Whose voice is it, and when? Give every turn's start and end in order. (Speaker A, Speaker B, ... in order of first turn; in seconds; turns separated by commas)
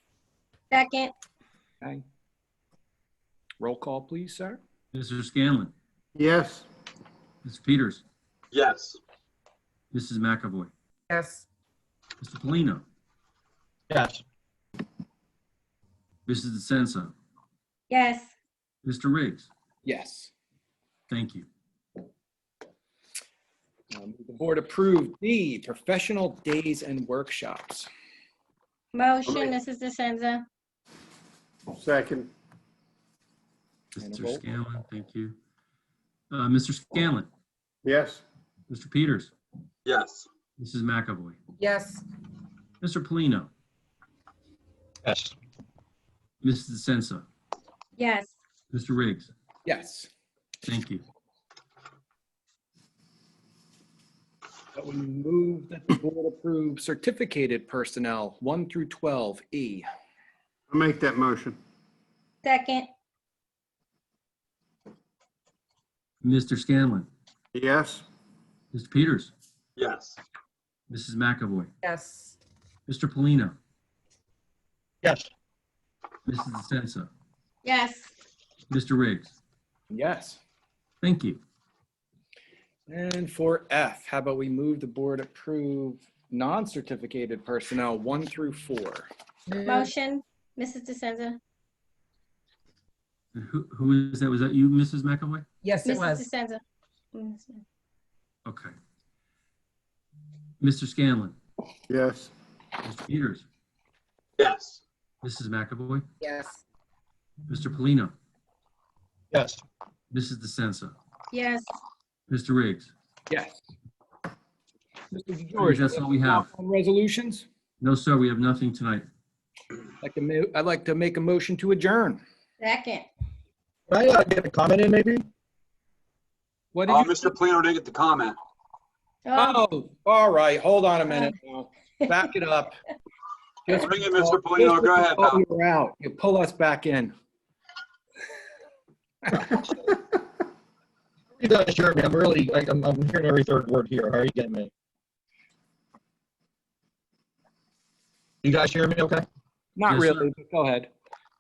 Speaker A: 0.7-1.1, Speaker B: 3.6-4.6, Speaker C: 4.9-5.7, Speaker D: 6.2-6.7, Speaker C: 7.4-8.0, Speaker E: 8.6-9.0, Speaker C: 9.9-10.7, Speaker F: 11.1-11.4, Speaker C: 12.2-12.8, Speaker G: 13.9-14.2, Speaker C: 16.3-17.1, Speaker A: 17.9-18.3, Speaker C: 18.8-19.5, Speaker B: 19.8-20.3, Speaker C: 21.1-21.5, Speaker B: 23.9-27.9, Speaker A: 28.9-30.4, Speaker D: 29.2-29.5, Speaker D: 31.7-32.3, Speaker C: 34.0-35.4, Speaker B: 34.0-34.4, Speaker C: 36.3-37.3, Speaker D: 37.8-38.2, Speaker C: 38.7-39.3, Speaker C: 40.6-41.4, Speaker F: 41.6-42.0, Speaker C: 42.8-43.5, Speaker G: 45.0-45.3, Speaker C: 46.4-47.2, Speaker A: 48.0-48.3, Speaker C: 48.7-49.3, Speaker B: 49.6-50.1, Speaker C: 50.6-51.0, Speaker B: 54.7-59.9, Speaker D: 60.7-61.6, Speaker A: 62.4-62.9, Speaker C: 66.2-67.1, Speaker D: 67.5-68.1, Speaker C: 68.7-69.3, Speaker C: 70.9-71.7, Speaker F: 71.8-72.3, Speaker C: 72.9-73.6, Speaker G: 75.0-75.3, Speaker C: 76.3-77.1, Speaker A: 77.7-78.1, Speaker C: 78.7-79.3, Speaker B: 79.9-80.4, Speaker C: 81.0-81.4, Speaker B: 82.9-89.1, Speaker F: 89.5-89.9, Speaker A: 89.7-91.4, Speaker C: 93.3-95.5, Speaker F: 95.6-96.3, Speaker A: 95.8-96.6, Speaker A: 97.2-97.6, Speaker C: 98.5-98.7, Speaker C: 100.6-101.4, Speaker D: 101.9-102.3, Speaker C: 102.8-103.5, Speaker E: 104.5-104.8, Speaker C: 105.2-106.1, Speaker F: 106.2-106.6, Speaker C: 107.5-108.1, Speaker G: 109.3-109.6, Speaker C: 110.1-111.0, Speaker A: 111.3-111.7, Speaker C: 112.3-112.9, Speaker B: 113.3-113.6, Speaker B: 115.1-117.5, Speaker C: 115.6-116.5, Speaker C: 117.8-119.1, Speaker B: 120.0-122.2, Speaker A: 122.6-123.1, Speaker G: 123.9-125.2, Speaker B: 126.7-127.3, Speaker E: 126.9-128.3, Speaker A: 129.3-129.6, Speaker B: 129.3-132.8, Speaker B: 133.7-137.1, Speaker E: 133.9-135.4, Speaker G: 141.4-144.7, Speaker G: 148.4-149.2, Speaker B: 149.8-150.9, Speaker C: 149.9-150.2